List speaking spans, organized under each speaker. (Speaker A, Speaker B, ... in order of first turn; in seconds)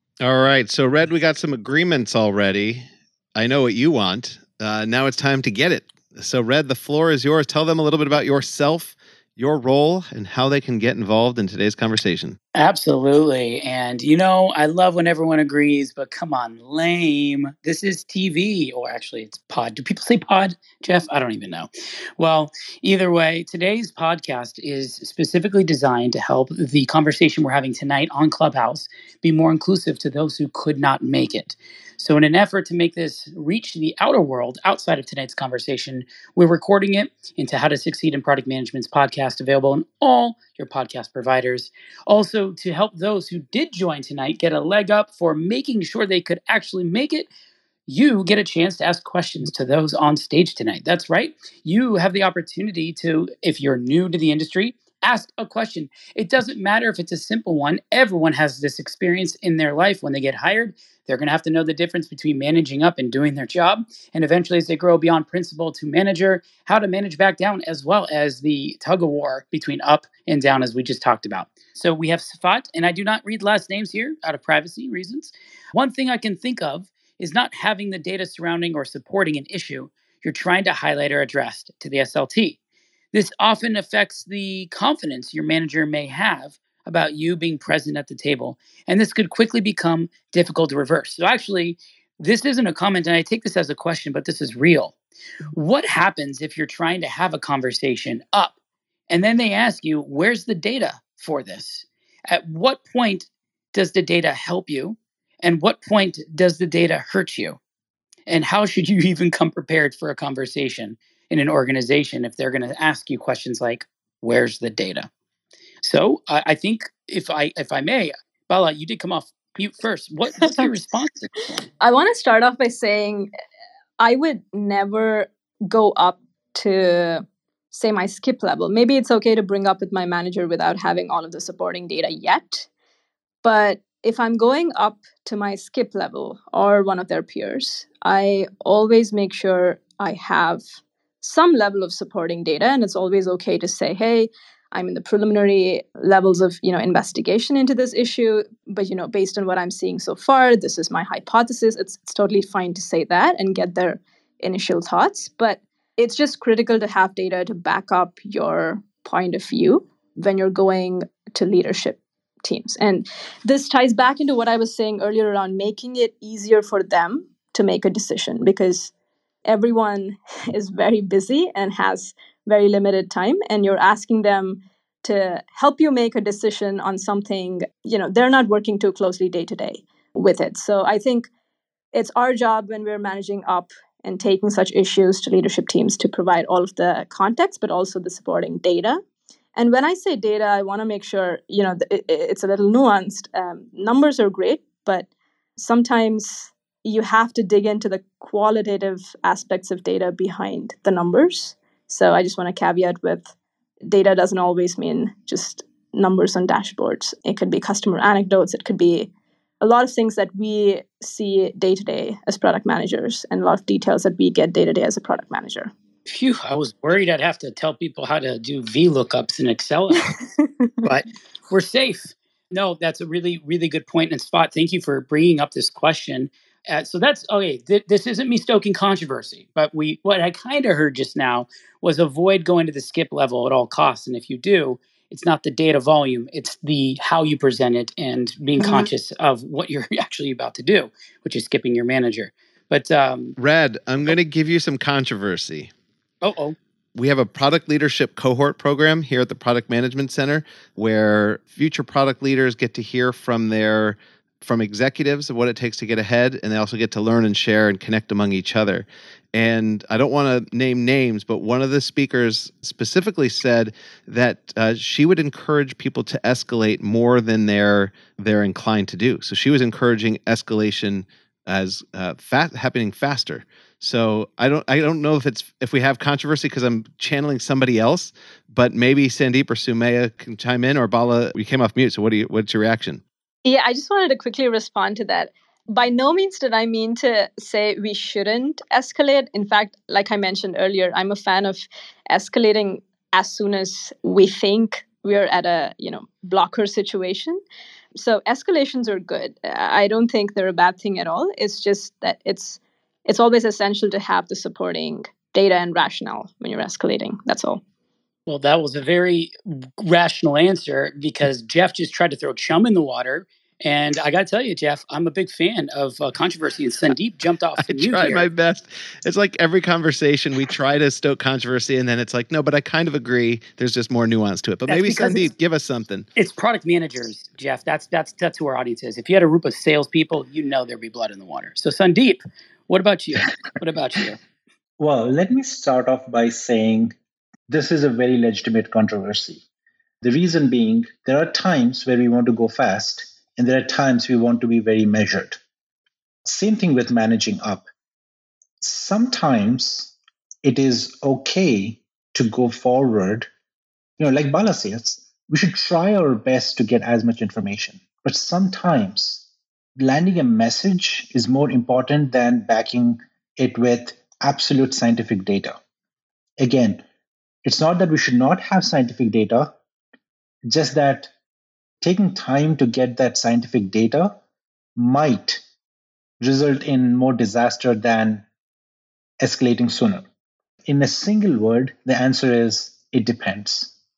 Speaker A: 0.2-12.4, 243.4-245.7, 246.9-283.0, 317.7-326.1
Speaker B: 12.5-47.3, 47.9-82.6, 83.1-95.0, 95.5-98.5, 99.1-107.6, 108.3-115.1, 115.8-121.3, 216.1-220.1, 220.8-243.3, 246.2-246.6, 308.3-318.3, 324.7-325.3, 326.1-334.2
Speaker C: 121.8-123.3, 124.0-132.7, 133.4-140.6, 141.2-168.9, 169.4-181.3, 181.9-189.0, 189.6-203.3, 203.9-215.7, 220.4-220.7, 283.4-297.4, 297.9-307.6
Speaker D: 334.8-336.9, 337.5-339.4, 340.0-345.4, 346.2-347.7, 348.6-353.3, 354.0-359.2, 359.8-365.6, 366.4-366.8, 367.4-369.5, 370.5-371.1, 371.8-374.2, 374.8-375.4, 376.2-378.2, 379.2-380.0, 380.6-383.7